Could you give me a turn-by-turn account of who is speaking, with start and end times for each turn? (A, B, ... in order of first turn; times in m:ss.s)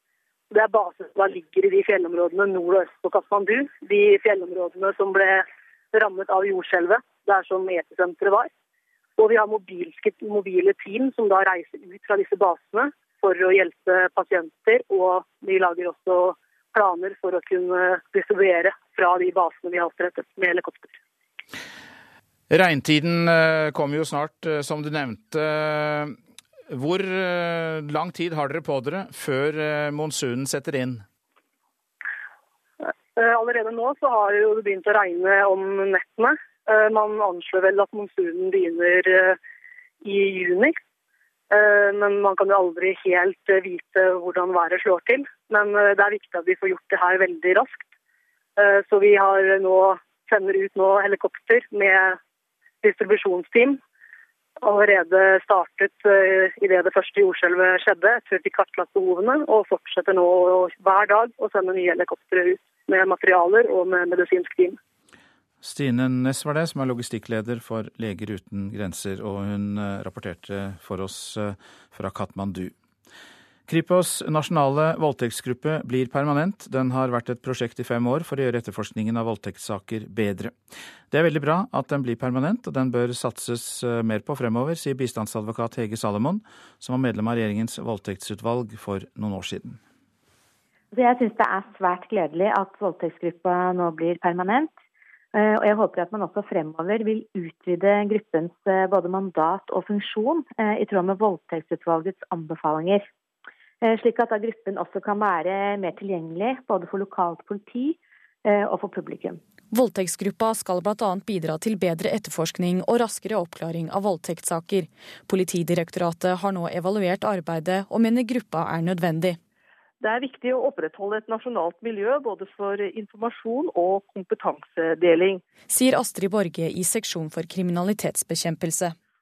0:00.5-0:08.5 A
0:09.2-0:21.0 A
0:22.5-0:26.2 B
0:26.7-0:31.1 B
0:33.2-0:39.4 A
0:40.0-0:40.8 A
0:41.5-0:47.8 A
0:48.6-0:52.2 A
0:52.8-0:53.8 A
0:54.6-1:04.8 A
1:05.6-1:12.7 B
1:13.7-1:20.6 B
1:21.1-1:29.8 B
1:30.9-1:34.7 C
1:35.3-1:43.1 C
1:43.8-1:49.4 C
1:49.7-1:59.4 D
2:00.0-2:05.4 E
2:05.7-2:09.0 D